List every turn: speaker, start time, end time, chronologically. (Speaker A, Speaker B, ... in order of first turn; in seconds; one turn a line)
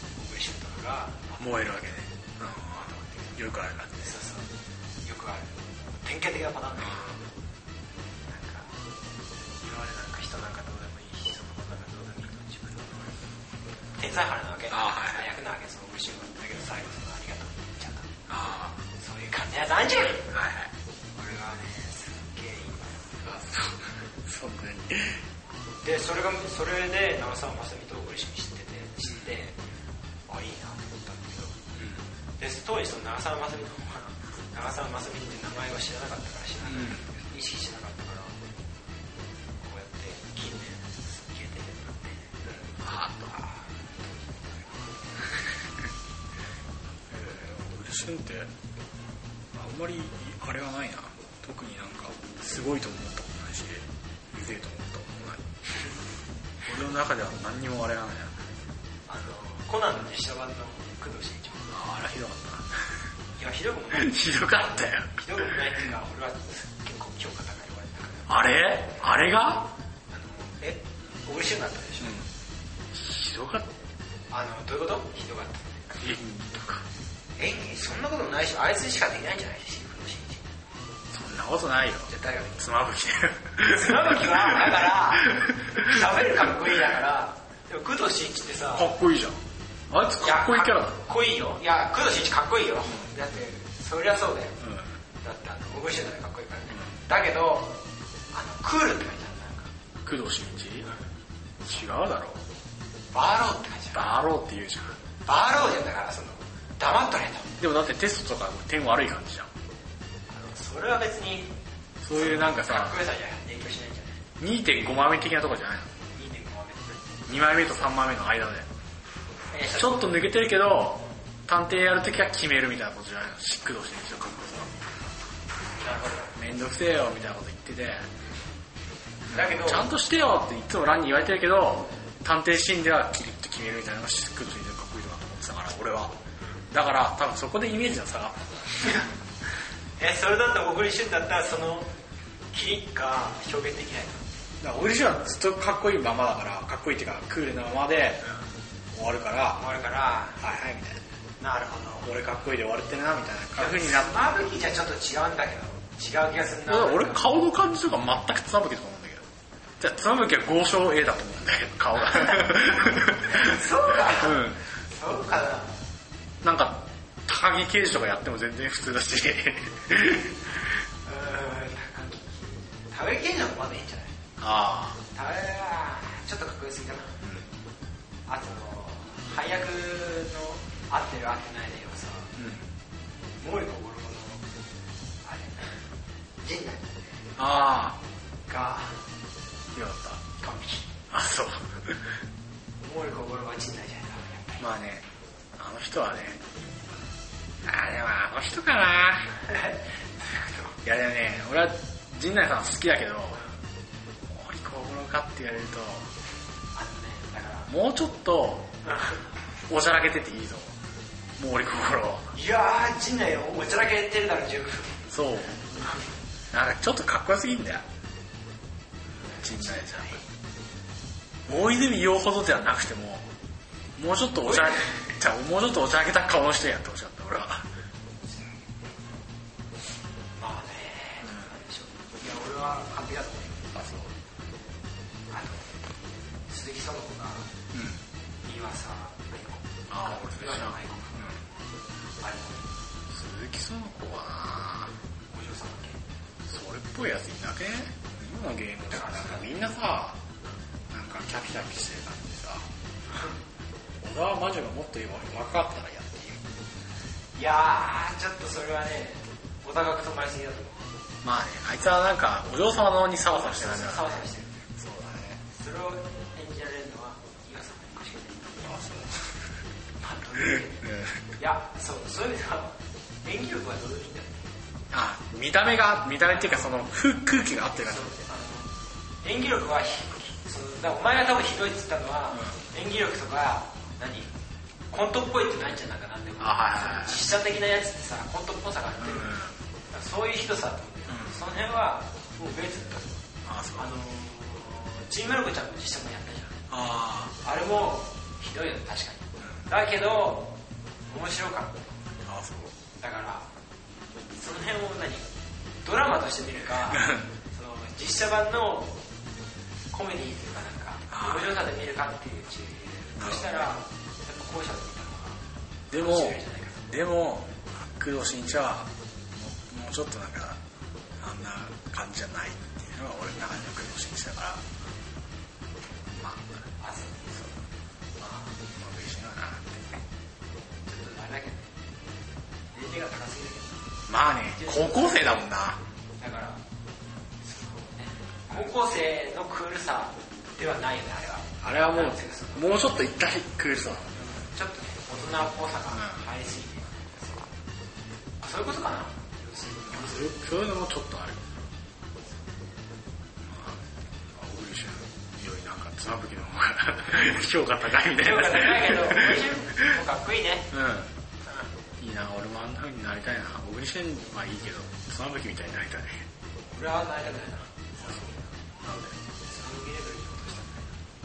Speaker A: 0.1-1.6
Speaker B: 1.4-4.2
Speaker A: 2.5-3.4
Speaker A: 4.0-4.5
Speaker A: 5.0-7.2
Speaker B: 6.8-7.2
Speaker A: 8.2-8.7
Speaker A: 9.6-13.2
Speaker A: 14.0-18.1
Speaker B: 14.7-15.2
Speaker B: 18.3-18.8
Speaker A: 19.0-20.4
Speaker B: 20.3-20.7
Speaker A: 21.1-23.2
Speaker B: 23.2-25.2
Speaker A: 25.8-29.6
Speaker A: 30.3-31.6
Speaker B: 31.8-32.0
Speaker A: 32.4-38.4
Speaker B: 36.7-37.1
Speaker A: 39.6-42.4
Speaker B: 42.5-43.3
Speaker A: 43.2-45.4
Speaker B: 47.1-48.5
Speaker B: 49.5-55.5
Speaker B: 56.6-58.3
Speaker A: 59.1-61.7
Speaker B: 61.7-62.8
Speaker A: 63.4-64.5
Speaker B: 63.9-65.6
Speaker A: 65.1-68.4
Speaker B: 68.3-69.7
Speaker A: 70.1-72.2
Speaker B: 72.0-72.3
Speaker B: 72.9-73.7
Speaker A: 74.3-76.0
Speaker B: 76.0-76.8
Speaker A: 77.4-80.5
Speaker B: 81.1-86.0
Speaker A: 82.1-82.6
Speaker A: 83.6-88.9
Speaker B: 88.7-91.0
Speaker A: 90.2-94.6
Speaker B: 94.6-95.0
Speaker A: 95.2-97.8
Speaker A: 98.3-99.7
Speaker B: 100.0-100.9
Speaker B: 101.6-102.4
Speaker A: 103.1-104.1
Speaker B: 103.9-105.0
Speaker A: 105.2-107.5
Speaker B: 107.6-109.5
Speaker A: 110.3-111.6
Speaker B: 112.0-112.9
Speaker A: 112.1-114.2
Speaker B: 114.4-115.9
Speaker A: 116.1-117.2
Speaker B: 117.3-118.7
Speaker A: 119.5-120.2
Speaker B: 119.7-124.7
Speaker A: 125.8-126.3
Speaker B: 126.3-128.1
Speaker B: 129.3-136.2
Speaker A: 129.3-129.9
Speaker B: 136.7-138.5
Speaker A: 138.8-139.1
Speaker A: 140.0-141.9
Speaker A: 142.5-144.2
Speaker B: 144.6-148.3
Speaker B: 148.9-149.6
Speaker A: 149.5-150.4
Speaker B: 150.4-151.0
Speaker A: 151.4-152.1
Speaker B: 152.0-154.2
Speaker A: 153.5-157.2
Speaker B: 156.7-159.2
Speaker B: 159.8-164.6
Speaker A: 162.1-165.7
Speaker B: 166.4-170.8
Speaker A: 171.0-174.1
Speaker B: 174.4-175.0
Speaker A: 175.1-177.2
Speaker B: 177.2-177.5
Speaker A: 178.3-182.3
Speaker B: 182.4-182.7
Speaker A: 183.4-184.4
Speaker A: 185.2-185.8
Speaker A: 186.4-187.3
Speaker B: 187.4-188.0
Speaker A: 188.5-189.0
Speaker B: 189.7-190.2
Speaker A: 190.4-191.0
Speaker B: 191.1-192.1
Speaker A: 192.8-194.7
Speaker B: 194.6-195.1
Speaker B: 195.6-196.4
Speaker B: 197.6-199.4
Speaker A: 199.3-200.8
Speaker B: 200.8-203.5
Speaker B: 204.3-206.1
Speaker A: 206.7-207.7
Speaker B: 207.7-208.7
Speaker A: 208.8-209.3
Speaker B: 209.7-210.7
Speaker B: 211.4-212.3
Speaker A: 212.3-215.1
Speaker B: 215.1-215.7
Speaker A: 215.6-216.1
Speaker B: 216.5-217.8
Speaker A: 219.2-220.3
Speaker B: 219.3-220.2
Speaker B: 221.5-223.3
Speaker B: 223.9-227.7
Speaker A: 224.5-224.9
Speaker A: 230.4-233.7
Speaker B: 231.2-231.5
Speaker B: 233.7-234.1
Speaker A: 235.3-235.7
Speaker A: 236.5-237.5
Speaker B: 237.7-238.0
Speaker A: 238.4-241.4
Speaker B: 239.9-241.4
Speaker A: 242.2-242.7
Speaker B: 243.1-244.9
Speaker A: 245.3-246.0
Speaker B: 246.5-250.2
Speaker A: 248.8-249.5
Speaker B: 250.9-252.7
Speaker A: 253.1-253.4
Speaker B: 254.0-256.4
Speaker A: 257.3-260.9
Speaker B: 261.2-265.4
Speaker A: 263.2-264.7
Speaker A: 265.5-268.6
Speaker B: 268.6-269.4
Speaker A: 270.0-274.5
Speaker B: 270.5-271.3
Speaker B: 274.9-278.1
Speaker A: 276.3-276.7
Speaker A: 277.7-284.3
Speaker B: 282.3-282.6
Speaker A: 284.9-293.2
Speaker B: 286.4-287.2
Speaker B: 289.0-289.6
Speaker B: 291.1-291.4
Speaker B: 293.4-293.9
Speaker A: 293.7-296.6
Speaker B: 296.7-297.3
Speaker A: 297.4-300.6
Speaker B: 299.4-299.7
Speaker A: 301.1-302.0
Speaker B: 302.2-302.7
Speaker A: 303.0-303.5
Speaker A: 304.3-305.3
Speaker A: 305.8-309.0
Speaker B: 306.9-307.3
Speaker A: 309.9-315.4
Speaker B: 311.1-311.5
Speaker B: 313.2-313.7
Speaker B: 315.9-320.6
Speaker A: 315.9-316.9
Speaker B: 321.2-324.6
Speaker B: 326.1-326.7
Speaker A: 326.8-327.3
Speaker B: 327.3-327.6
Speaker A: 328.2-328.6
Speaker B: 328.8-330.0
Speaker A: 330.9-331.7
Speaker A: 332.7-333.8
Speaker B: 334.1-335.8
Speaker A: 334.5-335.5
Speaker A: 336.2-336.6
Speaker A: 337.4-342.9
Speaker B: 341.6-344.1
Speaker A: 344.1-347.6
Speaker B: 345.9-346.2
Speaker A: 348.4-350.3
Speaker B: 349.8-351.4
Speaker B: 353.4-359.9
Speaker A: 358.0-360.7
Speaker B: 360.7-361.1
Speaker A: 361.4-361.7
Speaker B: 362.0-366.2
Speaker A: 366.7-368.4
Speaker B: 368.0-369.1
Speaker A: 369.4-371.0